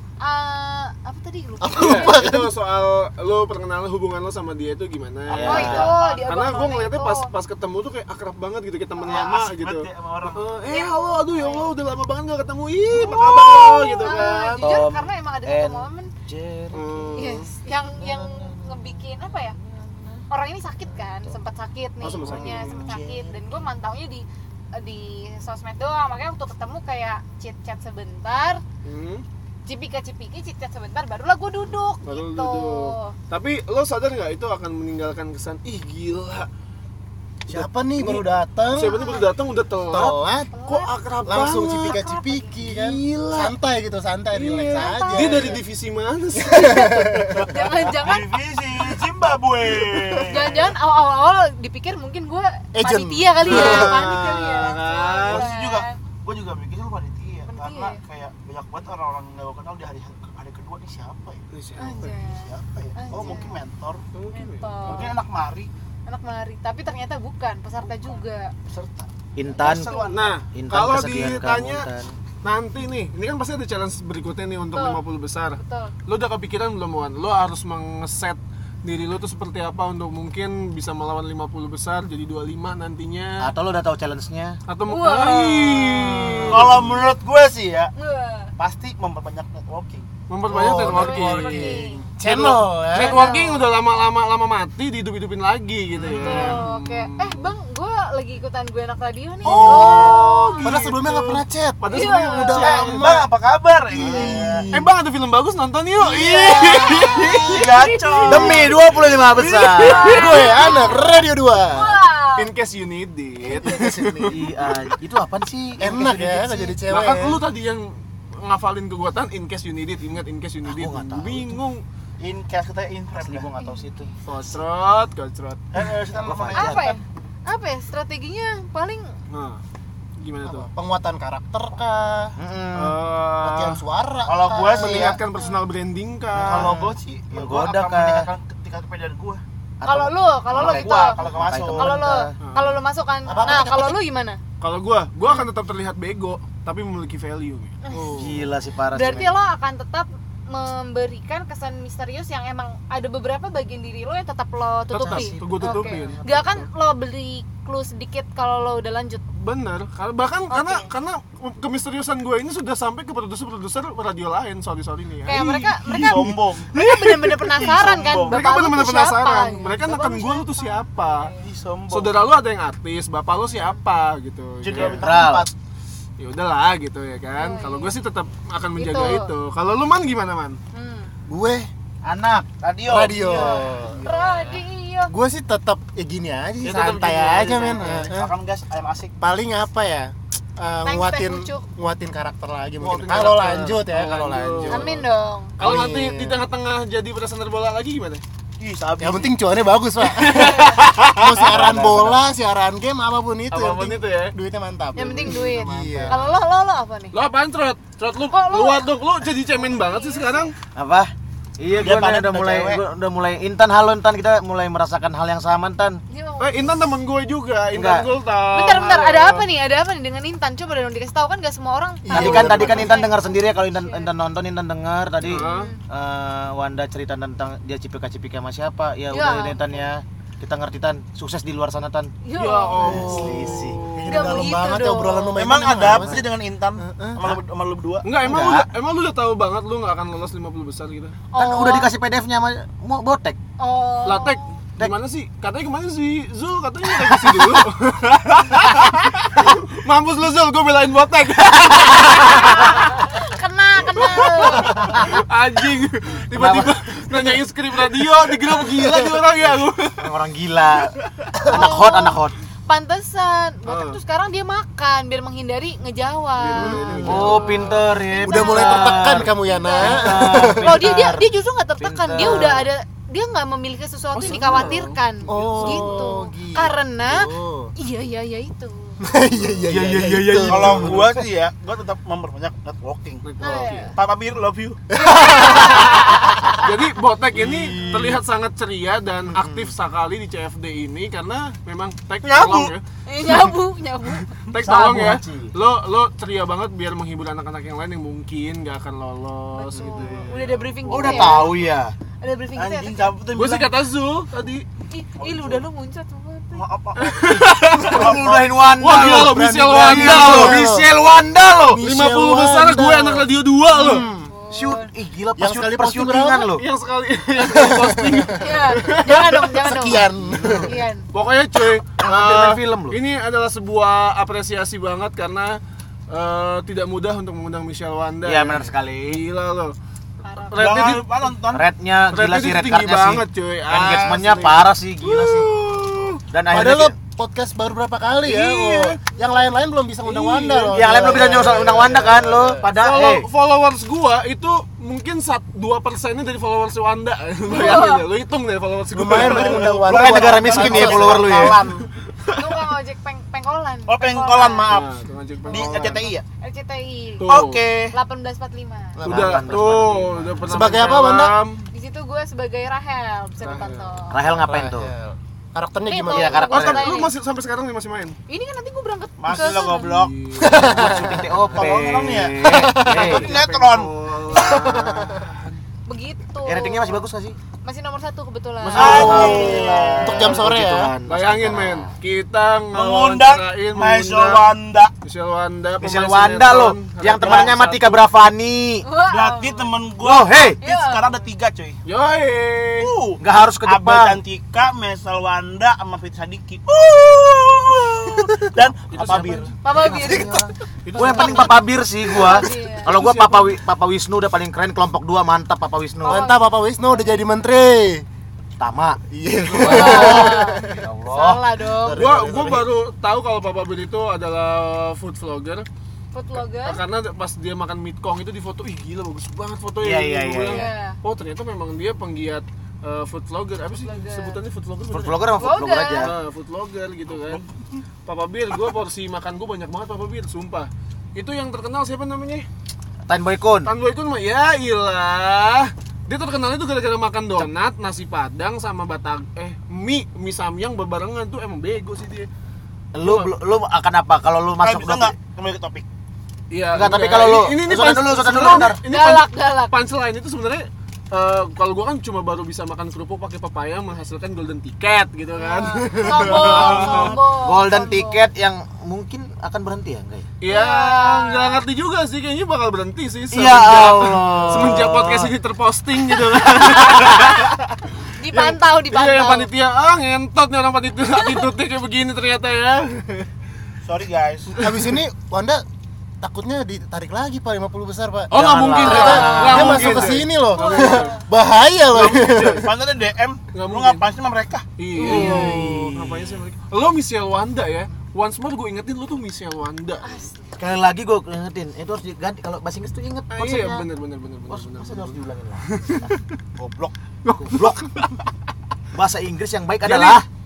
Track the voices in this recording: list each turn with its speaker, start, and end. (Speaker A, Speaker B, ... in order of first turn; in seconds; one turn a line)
Speaker A: 0.2-2.2
Speaker B: 1.6-2.5
Speaker C: 1.8-14.8
Speaker D: 5.3-6.0
Speaker E: 5.3-6.3
Speaker A: 5.4-7.3
Speaker E: 9.0-10.5
Speaker A: 10.7-11.7
Speaker A: 12.9-16.1
Speaker D: 14.6-17.2
Speaker C: 16.7-17.5
Speaker A: 17.1-19.6
Speaker D: 18.0-20.3
Speaker A: 20.3-28.6
Speaker C: 22.0-22.9
Speaker D: 22.0-23.6
Speaker C: 28.8-29.2
Speaker A: 29.7-33.1
Speaker C: 32.1-36.5
Speaker B: 37.5-39.0
Speaker C: 37.5-42.0
Speaker A: 38.8-39.3
Speaker B: 39.9-40.5
Speaker A: 40.5-40.9
Speaker B: 41.2-45.6
Speaker A: 41.8-42.6
Speaker C: 42.6-43.5
Speaker C: 44.3-47.1
Speaker A: 44.7-45.6
Speaker B: 46.4-47.5
Speaker A: 46.6-48.4
Speaker E: 47.3-50.7
Speaker C: 49.9-50.5
Speaker A: 50.3-56.0
Speaker B: 52.7-54.1
Speaker C: 53.5-55.5
Speaker E: 55.2-61.4
Speaker A: 57.5-58.0
Speaker C: 61.5-62.1
Speaker A: 61.8-63.6
Speaker E: 62.0-64.0
Speaker C: 64.1-65.1
Speaker A: 64.3-65.1
Speaker E: 64.8-65.7
Speaker A: 66.1-68.5
Speaker E: 67.9-70.4
Speaker D: 69.4-72.1
Speaker A: 69.7-70.3
Speaker C: 70.1-71.9
Speaker C: 72.4-83.5
Speaker A: 74.7-75.0
Speaker A: 75.6-75.9
Speaker D: 83.4-84.6
Speaker C: 84.7-87.0
Speaker A: 84.9-86.1
Speaker D: 86.0-86.8
Speaker E: 86.5-87.9
Speaker A: 88.0-88.5
Speaker E: 88.6-90.1
Speaker C: 90.3-97.5
Speaker B: 90.5-93.4
Speaker A: 90.6-92.0
Speaker A: 93.0-93.7
Speaker E: 96.0-96.6
Speaker A: 96.1-100.8
Speaker B: 99.5-103.3
Speaker C: 99.5-103.1
Speaker E: 99.5-100.2
Speaker A: 101.9-102.7
Speaker E: 102.6-104.7
Speaker B: 103.9-104.9
Speaker C: 104.0-107.6
Speaker A: 106.0-108.7
Speaker E: 107.4-108.9
Speaker D: 108.3-110.1
Speaker C: 109.4-110.5
Speaker A: 109.8-111.0
Speaker B: 110.0-112.0
Speaker A: 111.7-112.5
Speaker C: 112.4-114.4
Speaker B: 113.5-114.4
Speaker D: 114.3-116.7
Speaker B: 115.8-117.4
Speaker C: 116.9-121.8
Speaker D: 120.7-121.6
Speaker E: 122.2-123.5
Speaker D: 123.2-124.1
Speaker A: 123.6-124.1
Speaker C: 124.3-125.6
Speaker E: 125.7-127.0
Speaker D: 126.2-126.9
Speaker A: 126.5-129.1
Speaker C: 129.3-129.6
Speaker C: 130.2-130.7
Speaker B: 130.4-132.4
Speaker D: 132.4-133.0
Speaker C: 132.8-133.8
Speaker B: 133.4-135.2
Speaker E: 134.2-135.2
Speaker C: 134.8-136.7
Speaker A: 135.3-135.6
Speaker E: 136.4-139.4
Speaker B: 136.5-136.9
Speaker D: 137.3-138.3
Speaker D: 139.8-142.4
Speaker A: 139.8-141.2
Speaker E: 140.5-142.1
Speaker A: 141.7-144.4
Speaker C: 142.4-142.8
Speaker B: 143.3-144.0
Speaker C: 144.6-148.4
Speaker A: 147.8-148.3
Speaker D: 148.1-149.4
Speaker A: 148.9-159.2
Speaker D: 154.9-156.6
Speaker C: 154.9-156.2
Speaker C: 159.3-166.3
Speaker A: 160.5-160.9
Speaker A: 165.3-171.5
Speaker E: 165.9-168.4
Speaker C: 168.3-171.3
Speaker E: 171.4-172.2
Speaker C: 171.9-175.1
Speaker E: 174.6-175.5
Speaker D: 174.7-175.5
Speaker C: 176.2-180.6
Speaker A: 177.4-178.0
Speaker A: 178.8-179.3
Speaker A: 180.7-181.1
Speaker B: 181.3-181.7
Speaker D: 182.0-182.5
Speaker E: 182.6-183.8
Speaker B: 182.9-184.0
Speaker C: 184.0-184.6
Speaker A: 184.0-185.1
Speaker B: 185.1-188.3
Speaker C: 186.6-188.1
Speaker E: 187.8-189.1
Speaker B: 189.2-195.1
Speaker A: 190.8-191.7
Speaker C: 192.8-195.0
Speaker A: 194.7-195.6
Speaker C: 195.6-198.2
Speaker B: 195.6-196.4
Speaker E: 198.6-199.3
Speaker B: 199.0-206.2
Speaker C: 200.1-201.5
Speaker D: 201.4-202.2
Speaker C: 203.5-204.3
Speaker A: 205.0-207.2
Speaker C: 205.0-206.3
Speaker C: 207.1-210.6
Speaker A: 208.3-210.5
Speaker D: 210.7-216.0
Speaker E: 211.7-212.8
Speaker A: 216.1-216.9
Speaker C: 216.4-219.5
Speaker D: 217.7-218.1
Speaker A: 218.5-224.1
Speaker B: 222.1-223.1
Speaker D: 222.1-232.1
Speaker C: 225.2-225.7
Speaker A: 225.3-225.8
Speaker A: 229.1-229.6
Speaker A: 232.2-233.2
Speaker C: 232.4-234.4
Speaker D: 232.8-233.8
Speaker B: 232.9-233.3
Speaker B: 233.9-236.3
Speaker A: 234.1-235.4
Speaker E: 235.4-238.1
Speaker D: 235.8-236.2
Speaker B: 236.8-237.3
Speaker C: 238.0-241.2
Speaker D: 238.2-238.7
Speaker A: 241.3-241.9
Speaker D: 241.4-243.4
Speaker A: 243.6-244.6
Speaker C: 244.1-252.9
Speaker A: 252.0-255.2
Speaker C: 254.0-260.1
Speaker D: 254.8-255.2
Speaker D: 256.3-256.8
Speaker D: 260.0-262.4
Speaker A: 261.5-267.2
Speaker C: 263.7-264.0
Speaker C: 266.4-267.9
Speaker B: 266.6-267.4
Speaker D: 267.0-272.7
Speaker A: 268.0-279.0
Speaker B: 268.2-270.8
Speaker C: 274.1-275.0
Speaker B: 275.3-277.7
Speaker D: 275.4-275.8
Speaker B: 279.0-281.1
Speaker D: 279.7-281.1
Speaker E: 279.7-283.3
Speaker C: 283.2-283.9
Speaker A: 283.4-284.0
Speaker E: 283.9-284.8
Speaker B: 284.9-286.6
Speaker A: 285.0-286.5
Speaker C: 286.6-292.8
Speaker E: 287.4-288.2
Speaker D: 289.4-289.7
Speaker E: 292.3-292.7
Speaker A: 293.1-294.3
Speaker C: 294.5-301.4
Speaker E: 294.6-295.2
Speaker D: 294.8-295.5
Speaker A: 299.5-301.6
Speaker D: 300.9-301.9
Speaker E: 301.0-301.5
Speaker A: 302.2-303.1
Speaker E: 302.6-303.7
Speaker C: 303.4-304.7
Speaker A: 304.9-306.7
Speaker E: 305.2-305.7
Speaker E: 306.5-308.8
Speaker C: 307.0-308.2
Speaker D: 307.9-311.8
Speaker C: 308.8-310.7
Speaker B: 308.9-310.9
Speaker B: 311.7-314.3
Speaker C: 311.8-314.1
Speaker A: 313.9-314.9
Speaker D: 314.5-316.6
Speaker B: 315.4-316.5
Speaker C: 316.6-319.6
Speaker B: 317.4-318.4
Speaker A: 318.4-320.1
Speaker B: 319.4-320.7
Speaker C: 320.4-320.6
Speaker A: 320.6-321.1
Speaker C: 321.1-329.8
Speaker D: 322.0-323.0
Speaker D: 328.2-329.2
Speaker A: 330.2-330.8
Speaker C: 330.5-331.1
Speaker E: 330.6-331.7
Speaker D: 331.5-335.5
Speaker C: 332.1-336.2
Speaker D: 336.3-337.0
Speaker B: 336.5-342.7
Speaker C: 338.2-339.0
Speaker C: 340.0-341.7
Speaker D: 340.7-343.3
Speaker C: 342.6-349.8
Speaker A: 347.5-348.1
Speaker B: 348.9-351.4
Speaker E: 349.1-351.9
Speaker D: 349.8-351.6
Speaker C: 352.2-352.5
Speaker A: 352.3-354.7
Speaker E: 353.9-354.9
Speaker C: 354.7-356.1
Speaker A: 355.4-357.3
Speaker E: 355.5-356.2
Speaker C: 357.2-357.6
Speaker E: 357.2-357.9
Speaker A: 357.9-359.0
Speaker D: 359.0-360.5
Speaker B: 359.0-359.5
Speaker C: 359.0-361.7
Speaker B: 360.5-361.4
Speaker A: 361.7-364.2
Speaker C: 363.4-363.9
Speaker D: 364.1-364.9
Speaker B: 364.3-366.5
Speaker A: 365.9-367.1
Speaker D: 366.1-367.0
Speaker C: 366.5-368.2
Speaker A: 368.3-370.0
Speaker E: 369.2-370.1
Speaker C: 369.3-371.4
Speaker B: 370.4-371.3
Speaker D: 370.5-373.3
Speaker E: 371.5-372.5
Speaker B: 372.4-373.2
Speaker C: 372.8-375.6
Speaker E: 373.0-373.9
Speaker B: 374.4-375.2
Speaker A: 375.9-377.0
Speaker D: 376.4-377.4
Speaker A: 377.6-379.6
Speaker D: 378.6-381.9
Speaker E: 378.7-380.4
Speaker C: 378.9-379.3
Speaker B: 378.9-380.9
Speaker C: 381.1-388.1
Speaker E: 382.7-384.9
Speaker D: 385.8-388.9
Speaker E: 387.2-387.6
Speaker A: 388.8-389.8
Speaker E: 389.1-391.8
Speaker D: 390.0-390.6
Speaker A: 390.6-391.2
Speaker C: 391.9-392.9
Speaker E: 392.8-399.5
Speaker D: 393.2-394.2
Speaker D: 398.9-406.3
Speaker C: 399.0-399.4
Speaker A: 399.6-403.0
Speaker C: 400.9-401.6
Speaker C: 402.9-403.6
Speaker A: 406.0-406.4
Speaker B: 406.0-408.1
Speaker D: 408.6-409.0
Speaker B: 409.1-410.8
Speaker D: 409.5-411.4
Speaker A: 409.6-412.1
Speaker B: 411.8-412.7
Speaker C: 411.9-415.7
Speaker D: 412.1-412.5
Speaker A: 416.1-416.8
Speaker C: 416.6-425.3
Speaker D: 419.8-420.7
Speaker A: 420.5-421.0
Speaker A: 423.8-424.4
Speaker D: 424.9-426.2
Speaker A: 425.4-426.1
Speaker C: 426.0-427.4
Speaker E: 427.1-427.8
Speaker C: 428.1-432.5
Speaker D: 433.1-433.7
Speaker C: 433.6-442.3
Speaker D: 442.9-445.2
Speaker C: 443.0-443.3
Speaker E: 444.6-445.9
Speaker C: 446.5-457.2
Speaker D: 446.7-448.8
Speaker A: 448.3-449.8
Speaker A: 455.4-458.3
Speaker B: 456.0-456.3
Speaker E: 456.4-457.1
Speaker D: 456.5-460.3
Speaker C: 460.4-467.7
Speaker A: 460.5-461.6
Speaker D: 463.3-465.3
Speaker A: 466.6-467.6
Speaker A: 468.2-469.5
Speaker C: 468.3-473.3
Speaker A: 471.1-471.5
Speaker E: 473.9-474.6
Speaker B: 474.6-475.6
Speaker B: 476.2-482.7
Speaker D: 478.3-480.2
Speaker C: 478.3-481.2
Speaker A: 478.8-479.6
Speaker A: 480.5-481.2
Speaker C: 481.9-482.7
Speaker E: 482.6-484.7
Speaker C: 483.5-484.1
Speaker C: 484.8-490.3
Speaker A: 485.0-485.6
Speaker D: 485.0-486.4
Speaker A: 490.0-490.6
Speaker D: 490.6-493.8
Speaker C: 493.3-496.2
Speaker D: 494.5-496.1
Speaker E: 496.6-496.9
Speaker C: 497.2-498.1
Speaker D: 497.4-497.8
Speaker D: 498.9-500.3
Speaker C: 499.8-500.2